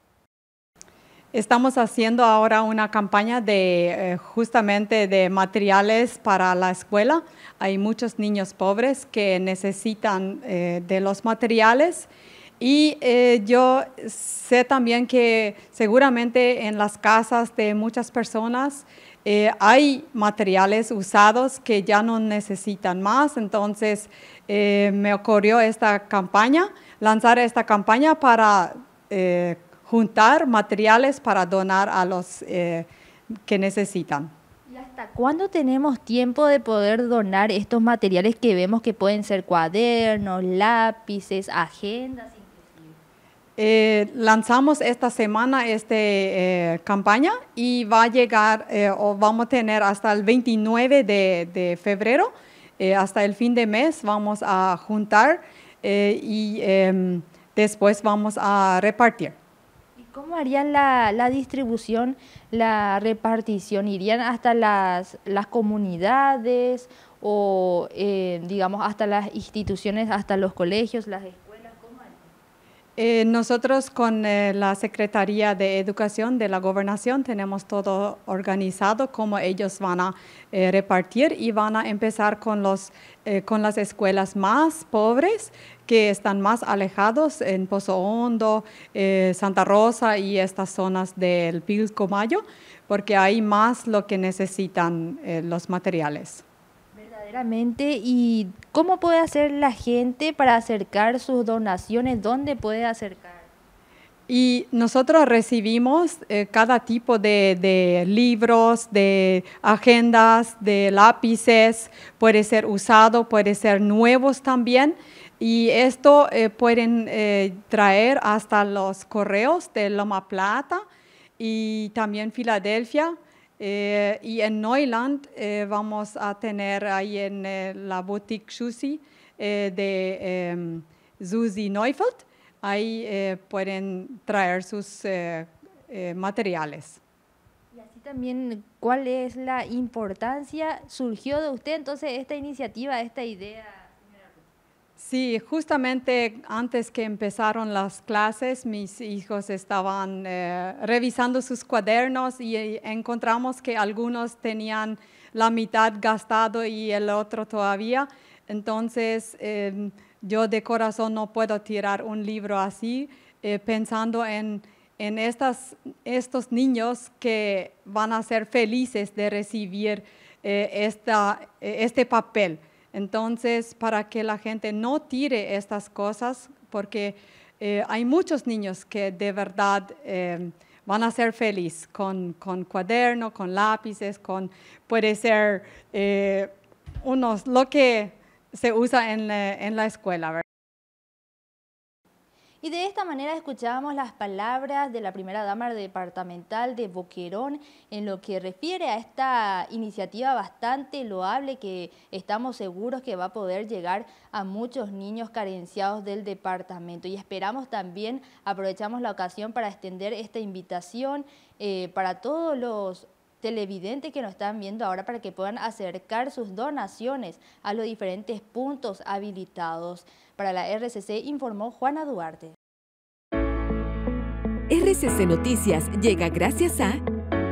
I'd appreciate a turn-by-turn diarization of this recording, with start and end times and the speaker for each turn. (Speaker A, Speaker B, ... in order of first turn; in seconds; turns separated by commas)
Speaker A: 1.3-12.1, Speaker A: 12.6-32.9, Speaker A: 33.4-34.3, Speaker B: 34.7-43.0, Speaker A: 43.6-59.3, Speaker B: 60.0-72.3, Speaker A: 73.0-96.4, Speaker B: 96.9-103.5, Speaker A: 104.3-120.8, Speaker A: 121.4-137.0, Speaker B: 137.7-144.4, Speaker A: 145.0-190.4, Speaker B: 192.6-222.5, Speaker C: 224.7-227.0